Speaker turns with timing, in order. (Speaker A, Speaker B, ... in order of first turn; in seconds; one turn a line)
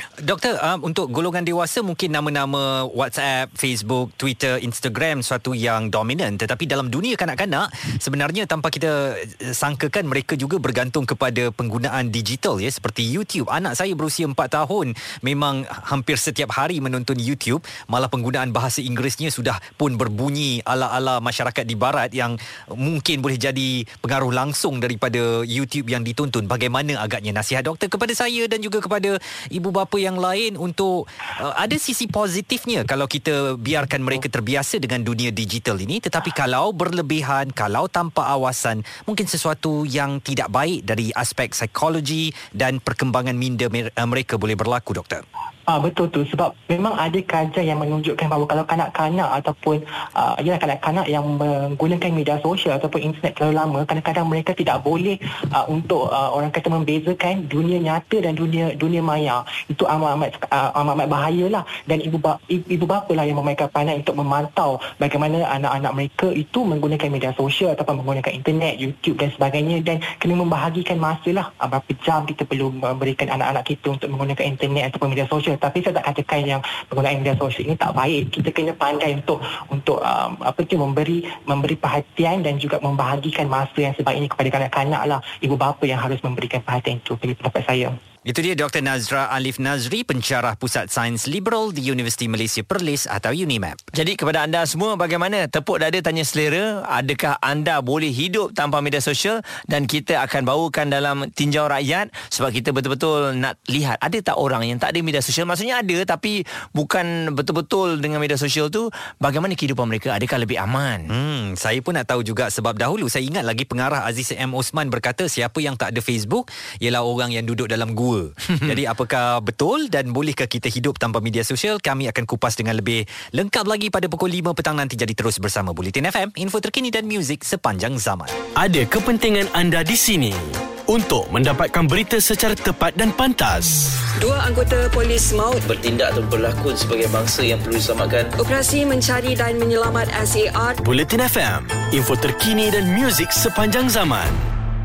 Speaker A: 0.2-45.2
Speaker B: 45.7-88.0
Speaker A: 88.3-93.8
Speaker C: 93.9-111.1
Speaker A: 111.1-128.3
Speaker C: 118.5-118.8
Speaker D: 128.6-134.1
Speaker E: 134.2-135.7
Speaker F: 135.7-138.3
Speaker E: 138.4-140.8
Speaker D: 140.8-144.4